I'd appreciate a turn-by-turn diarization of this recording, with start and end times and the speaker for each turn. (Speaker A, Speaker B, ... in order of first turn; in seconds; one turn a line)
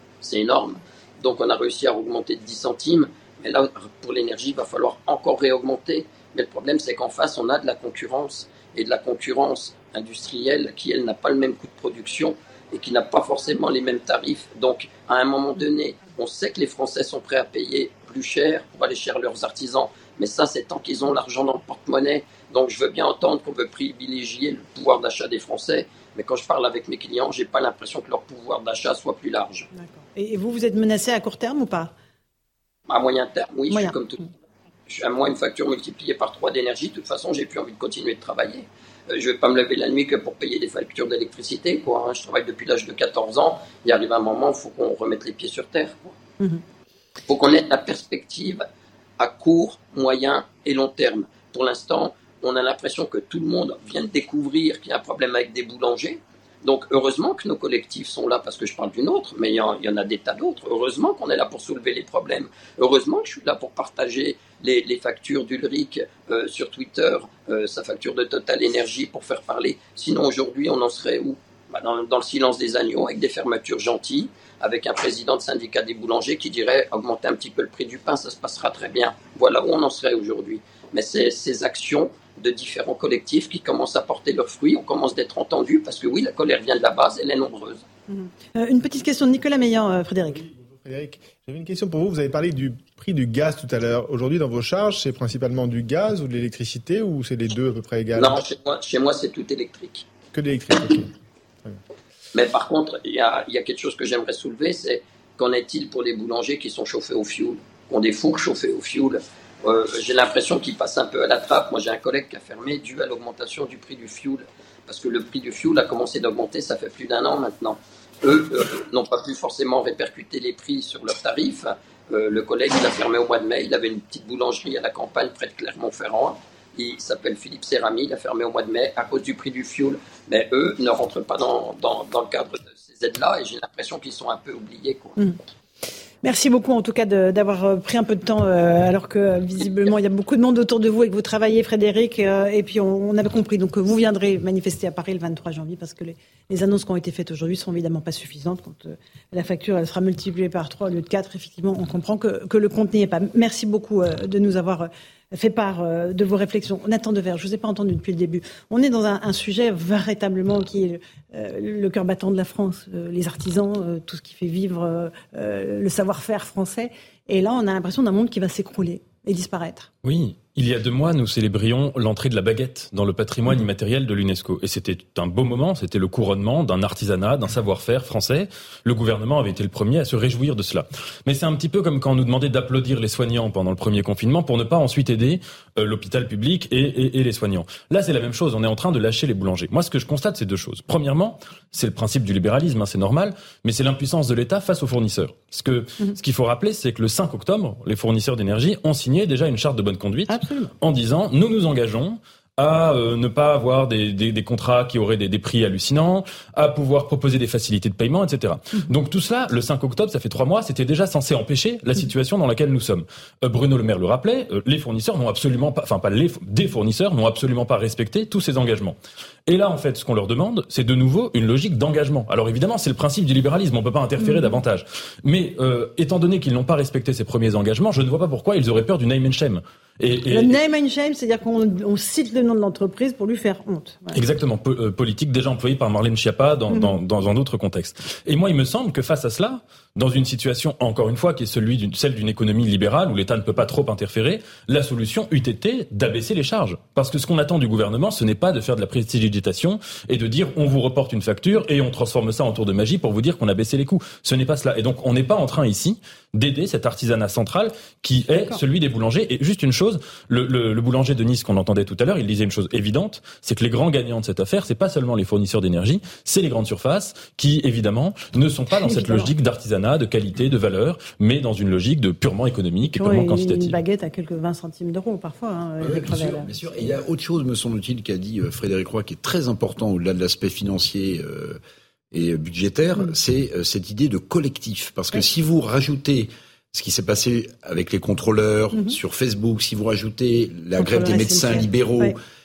Speaker A: 0.2-29.7
Speaker B: 29.7-31.9
Speaker A: 32.9-34.3
Speaker A: 34.9-46.1
Speaker A: 47.3-48.7
Speaker A: 49.2-87.8
Speaker B: 88.1-90.4
Speaker C: 90.3-98.4
Speaker A: 98.2-100.1
Speaker C: 100.3-101.8
Speaker A: 102.3-135.2
Speaker B: 136.2-169.9
Speaker D: 170.0-230.5
Speaker B: 200.3-200.8
Speaker B: 224.2-224.6
Speaker B: 230.3-234.2
Speaker D: 234.1-273.8
Speaker B: 236.7-237.0
Speaker B: 258.3-258.6
Speaker B: 268.8-269.3
Speaker B: 272.9-276.5
Speaker E: 275.8-281.6
Speaker E: 282.1-292.1
Speaker B: 290.8-292.1